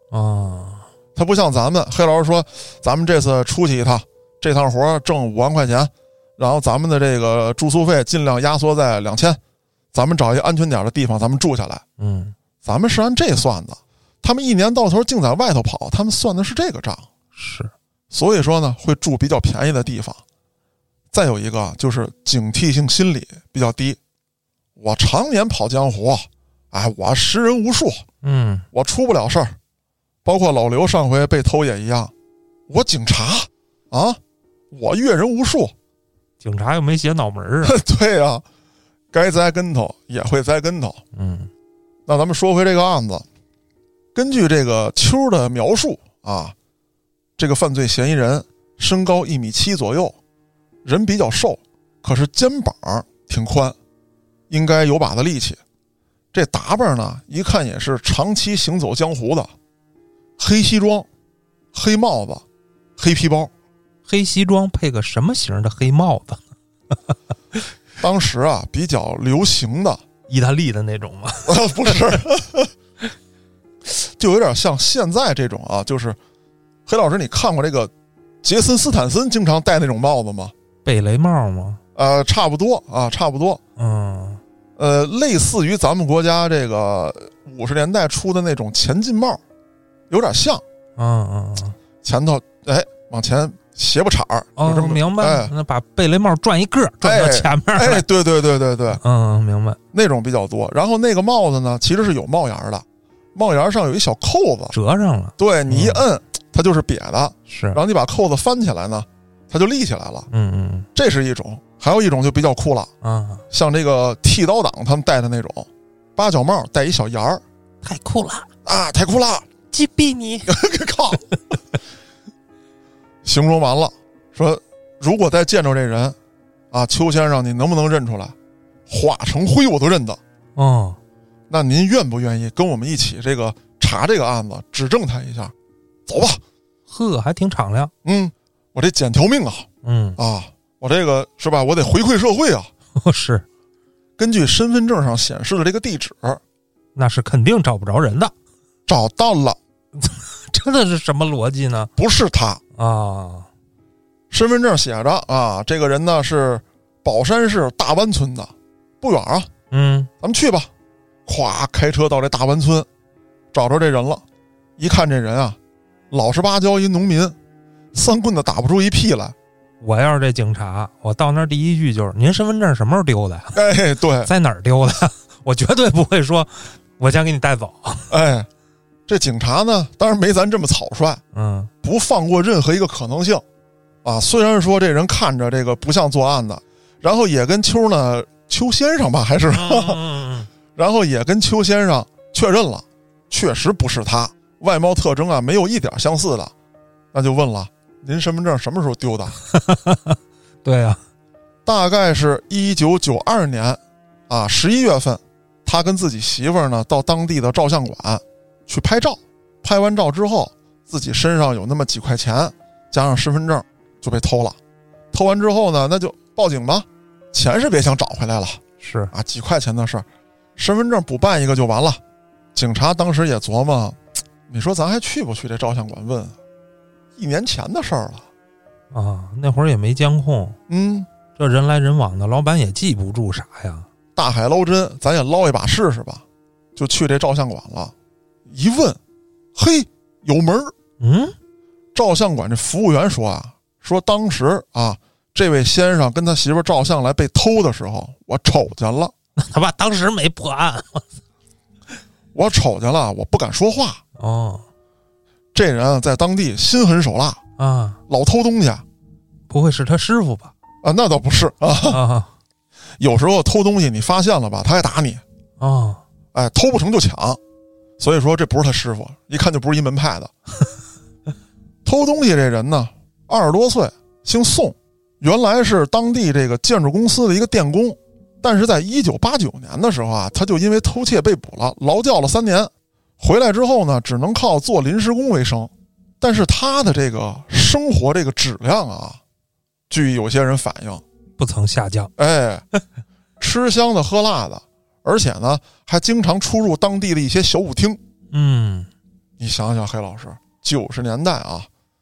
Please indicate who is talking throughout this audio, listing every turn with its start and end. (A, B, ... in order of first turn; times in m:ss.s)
0:00.1-0:00.9 A
0:01.2-0:09.4 B
0:09.9-0:11.8 B
0:12.0-0:12.4 A
0:12.6-0:17.1 B
0:17.4-0:17.7 A
0:18.1-0:20.2 B
0:21.1-0:24.0 B
0:24.8-0:28.0 B
0:28.2-0:28.7 A
0:28.7-0:29.6 B
0:30.2-0:32.1 B
0:32.7-0:34.2 B
0:34.7-0:35.7 B
0:36.4-0:37.8 A
0:37.6-0:38.4 B
0:39.1-0:41.0 B
0:41.1-0:41.5 A
0:42.1-0:43.2 B
0:44.2-0:46.6 B
0:47.4-0:50.2 B
0:50.8-0:53.8 B
0:54.5-0:55.6 B
0:56.3-0:59.5 B
1:00.4-1:01.1 B
1:01.7-1:02.4 B
1:03.0-1:03.5 B
1:04.1-1:07.0 A
1:08.0-1:10.0 B
1:10.3-1:12.2 A
1:11.4-1:12.7 B
1:13.9-1:16.2 B
1:16.9-1:17.9 B
1:18.4-1:20.5 B
1:20.8-1:21.8 A
1:22.0-1:23.6 B
1:23.8-1:24.4 A
1:24.8-1:29.4 B
1:30.1-1:30.6 B
1:31.0-1:31.8 A
1:32.0-1:35.5 B
1:34.6-1:38.1 A
1:37.0-1:39.0 B
1:38.9-1:39.8 A
1:39.9-1:44.7 B
1:44.7-1:46.0 A
1:45.4-1:50.3 B
1:47.5-1:47.8 A
1:50.3-1:50.9 A
1:51.0-1:52.9 B
1:53.0-1:53.4 A
1:53.5-1:57.4 B
1:57.8-1:58.5 A
1:58.6-1:59.5 B
1:59.7-2:00.5 A
2:00.5-2:01.3 B
2:03.2-2:06.2 B
2:06.7-2:08.3 B
2:08.9-2:10.2 B
2:10.6-2:11.0 A
2:11.5-2:15.5 B
2:16.1-2:16.4 B
2:16.9-2:17.9 A
2:18.0-2:22.7 B
2:19.8-2:20.2 A
2:23.0-2:23.4 A
2:24.2-2:26.4 B
2:27.0-2:28.3 A
2:28.9-2:29.6 B
2:30.0-2:31.9 A
2:32.0-2:32.6 B
2:32.8-2:33.5 A
2:34.3-2:39.5 B
2:39.7-2:40.1 A
2:40.2-2:40.7 B
2:41.3-2:42.9 B
2:43.5-2:44.2 B
2:44.8-2:45.6 B
2:46.1-2:47.4 B
2:47.9-2:49.4 B
2:49.8-2:53.6 A
2:53.5-2:54.3 B
2:54.2-2:58.1 A
2:58.1-2:58.5 B
2:59.1-3:01.2 B
3:01.3-3:01.7 A
3:01.8-3:03.4 B
3:04.0-3:10.1 B
3:09.5-3:10.5 A
3:10.8-3:16.5 B
3:17.1-3:19.4 B
3:19.5-3:21.0 A
3:21.7-3:34.6 B
3:35.1-3:38.6 B
3:38.8-3:39.1 A
3:39.1-3:40.0 B
3:40.6-3:42.0 B
3:42.6-3:46.4 B
3:47.2-3:48.3 B
3:48.9-3:50.6 A
3:50.7-3:51.1 B
3:51.4-3:53.9 A
3:54.2-3:56.2 B
3:56.8-3:57.9 B
3:58.5-3:59.0 B
3:59.6-4:00.7 B
4:01.0-4:01.4 A
4:02.0-4:09.1 B
4:09.4-4:11.1 A
4:12.3-4:14.0 B
4:14.2-4:14.6 A
4:15.5-4:17.4 B
4:17.6-4:18.0 A
4:18.1-4:18.8 B
4:19.5-4:20.5 A
4:20.8-4:22.0 B
4:21.9-4:22.3 A
4:23.0-4:25.2 B
4:25.6-4:26.0 A
4:26.3-4:27.4 B
4:28.0-4:30.3 B
4:31.8-4:49.2 B
4:49.9-4:51.0 B
4:51.4-4:52.1 A
4:52.2-4:52.6 B
4:53.4-4:58.0 B
4:58.3-4:58.9 A
4:59.4-5:01.7 B